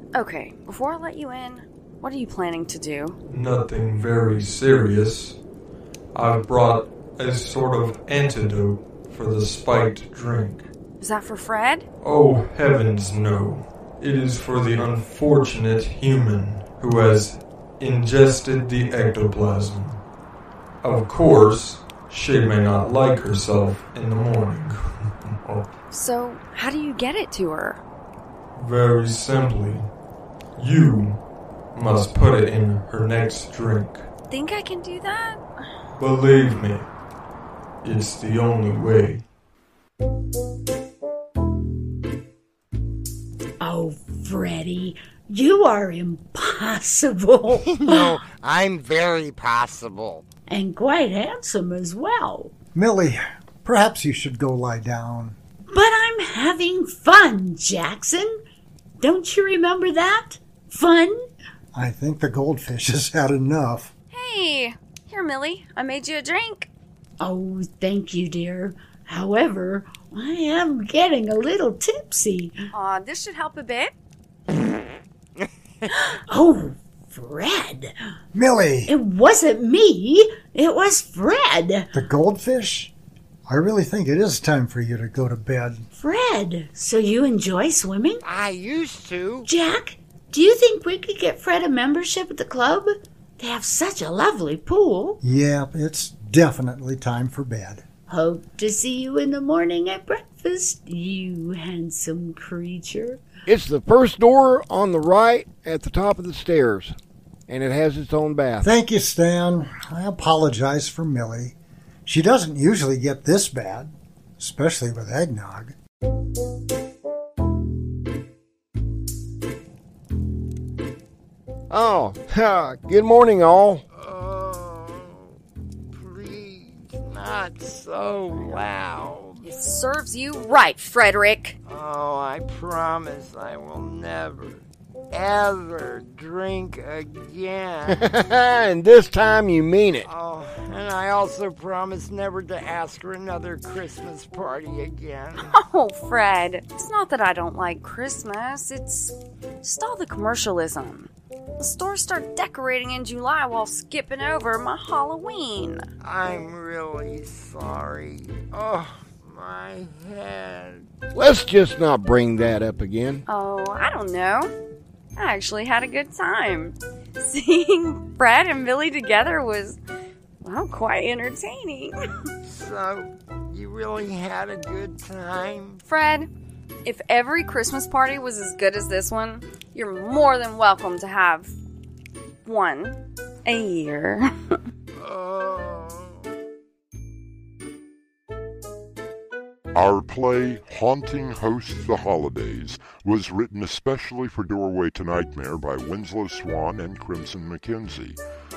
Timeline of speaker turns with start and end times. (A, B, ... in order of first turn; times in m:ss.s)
0:00.1-0:03.2 A
0:03.3-0:05.4 B
0:06.1-0:10.7 B
0:11.0-0:11.9 A
0:12.0-0:20.0 B
0:20.8-0:25.7 B
0:25.9-0:27.8 A
0:28.5-0:29.9 B
0:30.6-0:34.1 B
0:34.3-0:35.4 A
0:36.0-0:36.9 B
0:37.8-0:39.2 B
0:43.6-0:48.2 C
0:47.7-0:50.3 D
0:50.5-0:52.5 C
0:52.7-0:55.4 E
0:55.7-0:58.3 C
0:59.0-1:01.2 C
1:01.7-1:03.9 E
1:04.1-1:06.7 A
1:07.2-1:12.6 C
1:12.7-1:13.9 A
1:16.2-1:17.9 C
1:18.3-1:19.0 E
1:18.9-1:21.9 C
1:21.9-1:22.9 E
1:23.5-1:25.8 E
1:25.9-1:28.2 C
1:28.2-1:29.5 D
1:29.4-1:35.2 C
1:35.2-1:37.8 E
1:38.1-1:43.2 C
1:43.5-1:47.0 F
1:47.5-1:48.7 F
1:48.6-1:55.8 E
2:01.7-2:03.8 F
2:04.0-2:05.2 D
2:06.0-2:09.5 D
2:08.3-2:08.7 A
2:09.4-2:11.6 A
2:11.7-2:18.0 D
2:17.9-2:20.1 F
2:20.0-2:25.5 D
2:25.4-2:35.9 A
2:36.0-2:40.8 D
2:41.1-2:43.2 F
2:43.3-2:44.5 A
2:45.2-2:49.8 A
2:50.4-2:52.0 A
2:52.5-2:55.8 D
2:55.9-2:56.3 A
2:56.8-3:01.5 A
3:02.4-3:04.3 A
3:05.0-3:05.9 D
3:09.7-3:18.2 G